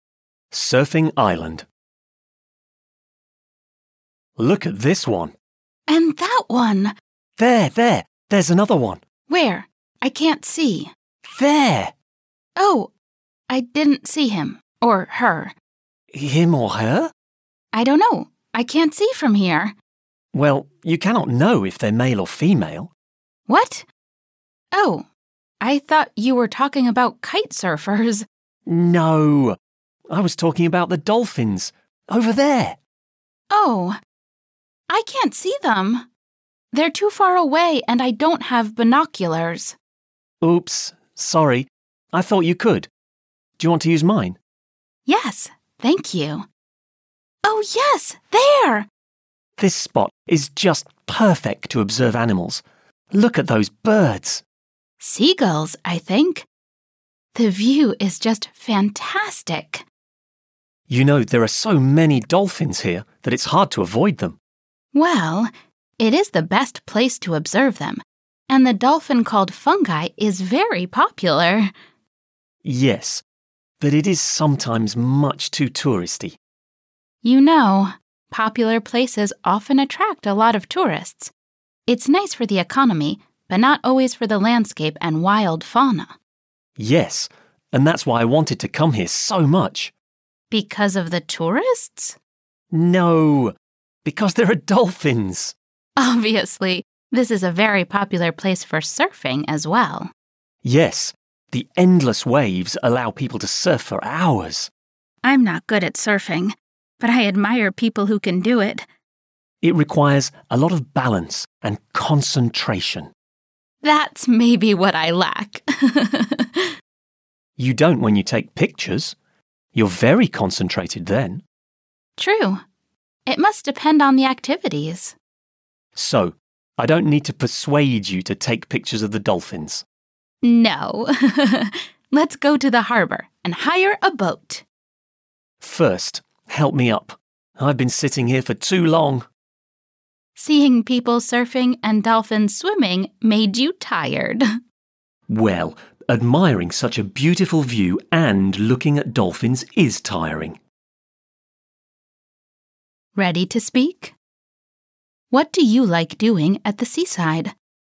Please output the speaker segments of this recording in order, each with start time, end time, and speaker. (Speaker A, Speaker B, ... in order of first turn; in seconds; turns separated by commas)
Speaker A: 0.5-1.6, Speaker A: 4.4-5.3, Speaker B: 5.9-6.9, Speaker A: 7.4-9.0, Speaker B: 9.3-10.9, Speaker A: 11.3-11.9, Speaker B: 12.6-12.9, Speaker B: 13.5-15.5, Speaker A: 16.1-17.1, Speaker B: 17.7-19.7, Speaker A: 20.3-22.9, Speaker B: 23.5-23.9, Speaker B: 24.7-25.1, Speaker B: 25.6-28.2, Speaker A: 28.7-29.6, Speaker A: 30.1-32.8, Speaker B: 33.5-34.0, Speaker B: 34.9-36.1, Speaker B: 36.7-39.8, Speaker A: 40.4-42.9, Speaker A: 43.6-44.4, Speaker B: 45.1-46.5, Speaker B: 47.4-48.9, Speaker A: 49.6-54.4, Speaker B: 55.0-56.5, Speaker B: 57.3-59.8, Speaker A: 60.9-64.4, Speaker B: 64.9-71.7, Speaker A: 72.6-73.2, Speaker A: 73.8-76.4, Speaker B: 77.2-81.3, Speaker B: 81.9-86.1, Speaker A: 86.8-89.9, Speaker B: 90.5-92.2, Speaker A: 92.7-95.5, Speaker B: 96.0-100.1, Speaker A: 100.6-104.7, Speaker B: 105.2-108.8, Speaker A: 109.6-113.1, Speaker B: 113.8-116.7, Speaker A: 117.6-119.1, Speaker A: 119.7-121.4, Speaker B: 122.2-122.6, Speaker B: 123.2-125.1, Speaker A: 126.0-129.8, Speaker B: 130.4-134.6, Speaker A: 135.6-139.2, Speaker B: 140.4-144.4, Speaker A: 145.3-150.6, Speaker B: 153.2-154.1, Speaker B: 155.3-157.5